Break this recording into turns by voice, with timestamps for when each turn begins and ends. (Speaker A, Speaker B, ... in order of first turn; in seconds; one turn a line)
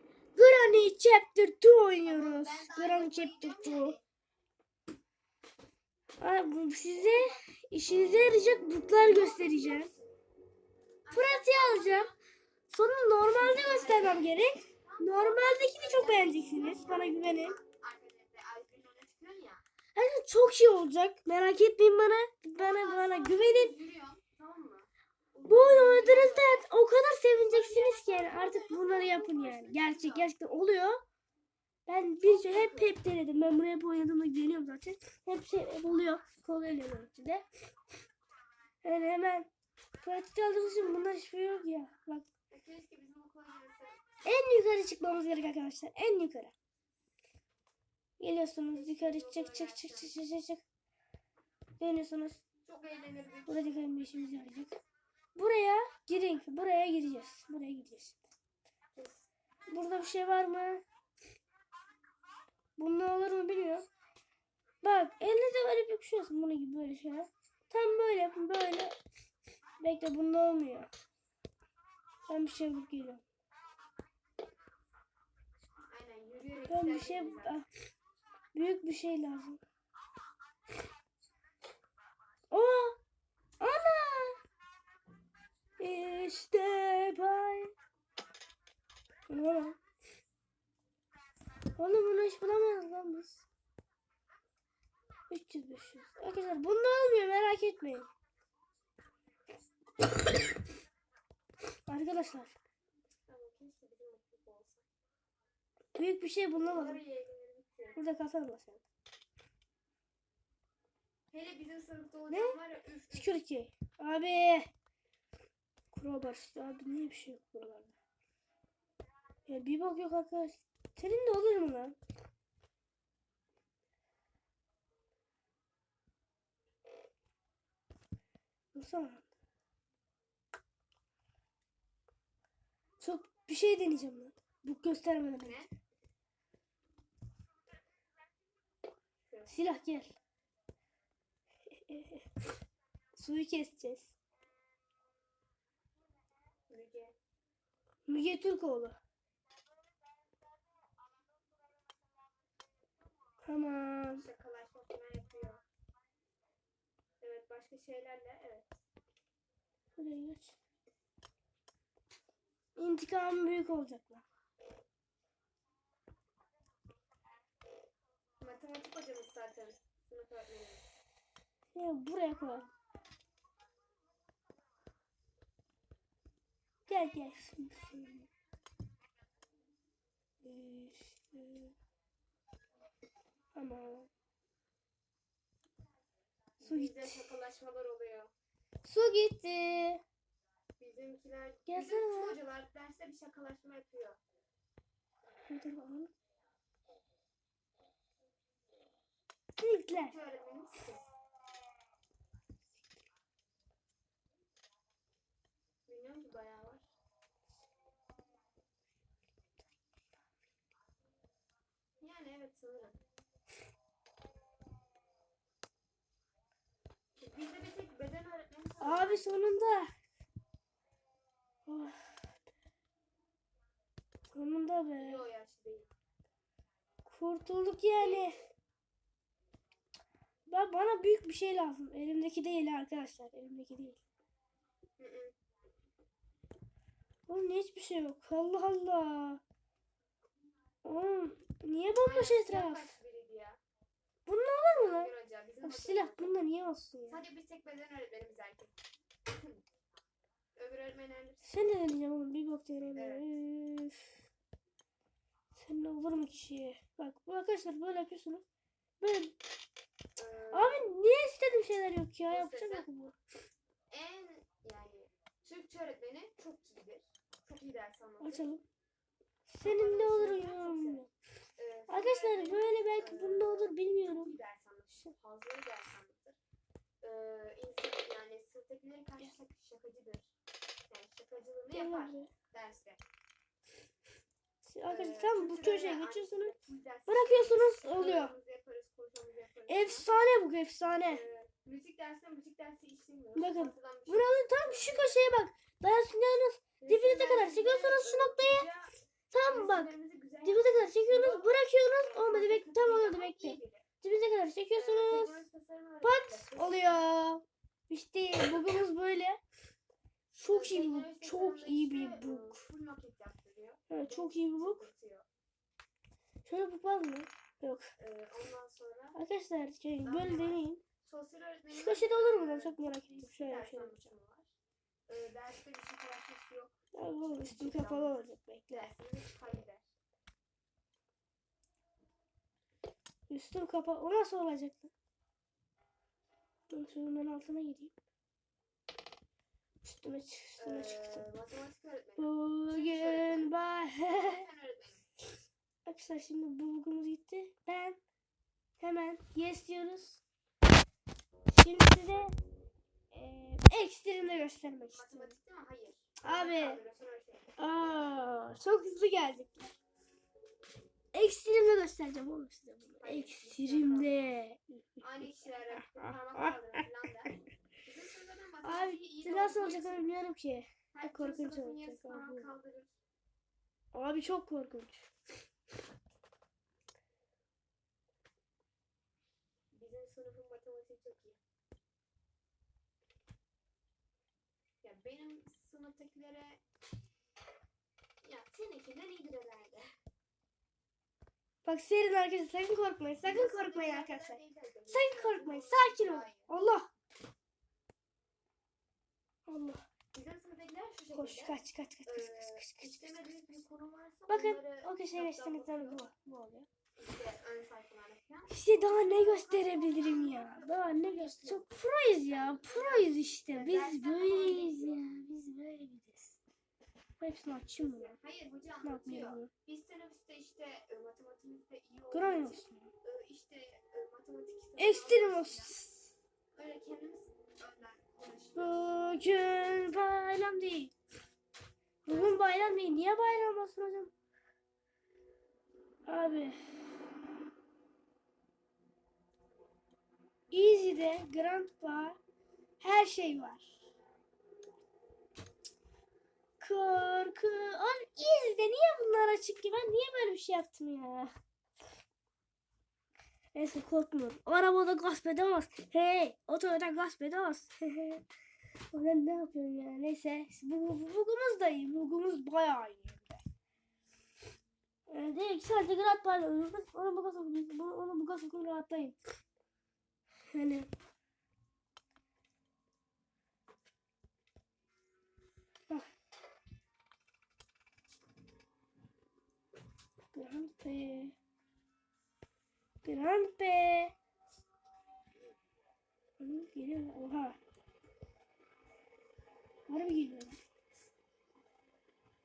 Speaker A: 0.3-4.0
Speaker B: 2.0-4.0
Speaker A: 6.2-9.9
Speaker B: 7.1-7.5
Speaker B: 9.0-10.1
Speaker B: 11.0-12.1
Speaker A: 11.1-12.1
Speaker A: 12.7-17.6
Speaker B: 13.3-19.6
Speaker A: 19.9-23.8
Speaker B: 22.6-26.7
Speaker A: 25.5-31.0
Speaker B: 27.3-30.3
Speaker A: 31.9-37.5
Speaker B: 32.2-33.0
Speaker A: 38.8-39.5
Speaker A: 40.0-42.2
Speaker B: 42.5-44.0
Speaker A: 44.2-46.5
Speaker A: 48.2-50.6
Speaker B: 48.7-50.2
Speaker A: 51.8-52.4
Speaker B: 52.6-53.9
Speaker A: 53.5-54.8
Speaker A: 55.3-58.2
Speaker B: 58.9-59.3
Speaker A: 59.7-60.8
Speaker A: 62.8-63.9
Speaker A: 64.8-68.9
Speaker A: 69.8-70.9
Speaker A: 72.3-73.2
Speaker B: 75.8-77.6
Speaker A: 76.7-77.7
Speaker A: 78.5-79.6
Speaker A: 82.5-83.0
Speaker A: 83.6-84.4
Speaker A: 85.8-87.7
Speaker A: 89.3-89.8
Speaker A: 91.8-93.4
Speaker A: 95.3-98.1
Speaker A: 101.9-102.6
Speaker B: 103.3-104.9
Speaker A: 105.9-107.0
Speaker B: 106.6-108.0
Speaker A: 108.0-108.8
Speaker B: 111.3-113.4
Speaker A: 112.3-112.6
Speaker A: 113.1-114.7
Speaker A: 115.9-117.9
Speaker A: 119.5-122.0
Speaker A: 128.7-129.3
Speaker A: 133.0-135.7
Speaker B: 135.4-135.7
Speaker A: 139.5-140.2
Speaker A: 141.9-142.2
Speaker A: 143.2-144.1
Speaker B: 146.7-147.2
Speaker A: 148.1-149.0
Speaker A: 153.4-154.2
Speaker B: 154.2-155.6
Speaker B: 157.2-158.7
Speaker A: 160.0-160.6
Speaker A: 162.8-164.2
Speaker B: 168.4-170.8
Speaker A: 171.7-172.7
Speaker A: 176.9-178.3
Speaker A: 180.4-181.7
Speaker A: 183.5-184.1
Speaker B: 186.6-188.3
Speaker A: 186.6-187.3
Speaker A: 188.8-190.0
Speaker B: 190.8-194.2
Speaker A: 191.7-192.4
Speaker A: 195.5-196.1
Speaker A: 199.6-200.2
Speaker B: 200.0-201.1
Speaker B: 205.9-206.9
Speaker B: 212.0-213.0
Speaker B: 217.2-219.4
Speaker A: 218.8-219.9
Speaker A: 221.7-222.0
Speaker A: 224.3-225.2
Speaker B: 225.0-225.9
Speaker A: 227.1-228.4
Speaker B: 227.9-228.3
Speaker A: 230.5-234.0
Speaker B: 235.0-235.3
Speaker A: 237.3-239.4
Speaker A: 240.8-242.9
Speaker B: 242.0-243.6
Speaker A: 244.2-245.1
Speaker B: 244.7-246.3
Speaker A: 245.6-247.2
Speaker B: 247.1-248.7
Speaker B: 249.3-249.6
Speaker B: 250.5-251.5
Speaker A: 251.4-254.1
Speaker B: 252.9-253.3
Speaker A: 255.6-258.4
Speaker A: 259.0-259.3
Speaker B: 260.1-260.9
Speaker A: 260.5-263.1
Speaker B: 262.3-262.9
Speaker B: 263.9-268.5
Speaker A: 268.2-268.6
Speaker A: 269.5-271.1
Speaker B: 269.6-271.1
Speaker B: 271.6-276.4
Speaker A: 271.9-274.3
Speaker B: 277.0-280.3
Speaker B: 280.9-283.0
Speaker A: 281.7-282.3
Speaker A: 284.6-286.6
Speaker B: 284.9-290.1
Speaker A: 287.1-288.3
Speaker A: 289.7-291.2
Speaker B: 291.1-295.3
Speaker A: 293.4-298.7
Speaker B: 296.8-298.9
Speaker A: 299.3-299.9
Speaker B: 299.5-303.9
Speaker A: 300.4-305.4
Speaker B: 304.7-307.1
Speaker A: 306.0-309.4
Speaker A: 310.3-312.7
Speaker B: 310.5-315.3
Speaker A: 313.9-314.8
Speaker A: 316.4-317.9
Speaker B: 318.0-319.2
Speaker A: 319.1-320.8
Speaker B: 320.0-324.6
Speaker A: 321.7-324.1
Speaker B: 325.1-326.8
Speaker A: 326.9-328.9
Speaker B: 327.4-329.9
Speaker A: 333.3-334.9
Speaker A: 336.7-337.9
Speaker A: 339.8-341.3
Speaker B: 340.6-343.5
Speaker A: 342.2-344.4
Speaker B: 344.1-345.1
Speaker A: 345.8-348.0
Speaker A: 348.8-350.2
Speaker A: 351.5-352.4
Speaker A: 353.1-355.4
Speaker B: 354.9-357.5
Speaker A: 356.2-356.8
Speaker A: 357.6-359.7
Speaker A: 361.1-366.8
Speaker B: 363.0-364.4
Speaker B: 365.0-370.1
Speaker A: 368.6-372.5
Speaker B: 370.9-372.9
Speaker A: 373.9-375.1
Speaker B: 379.7-381.4
Speaker B: 384.8-386.6
Speaker B: 388.2-389.9
Speaker A: 391.6-394.4
Speaker B: 393.2-396.5
Speaker A: 394.9-396.9
Speaker A: 399.4-399.8
Speaker B: 400.1-406.1
Speaker A: 401.1-403.6
Speaker A: 404.3-406.7
Speaker B: 406.9-415.1
Speaker A: 408.5-416.4
Speaker A: 417.2-418.1
Speaker B: 417.8-425.8
Speaker A: 418.8-419.5
Speaker A: 422.1-422.9
Speaker A: 424.8-426.1
Speaker B: 426.5-428.9
Speaker A: 428.6-430.9
Speaker B: 432.1-432.9
Speaker A: 432.1-434.1
Speaker A: 436.1-436.6
Speaker A: 440.5-442.2
Speaker A: 442.8-443.8
Speaker A: 446.6-451.3
Speaker A: 453.5-458.2
Speaker A: 458.9-463.4
Speaker A: 465.1-469.2
Speaker A: 470.5-470.9
Speaker A: 480.3-481.4
Speaker A: 483.0-484.1
Speaker A: 486.4-487.6
Speaker A: 489.9-490.6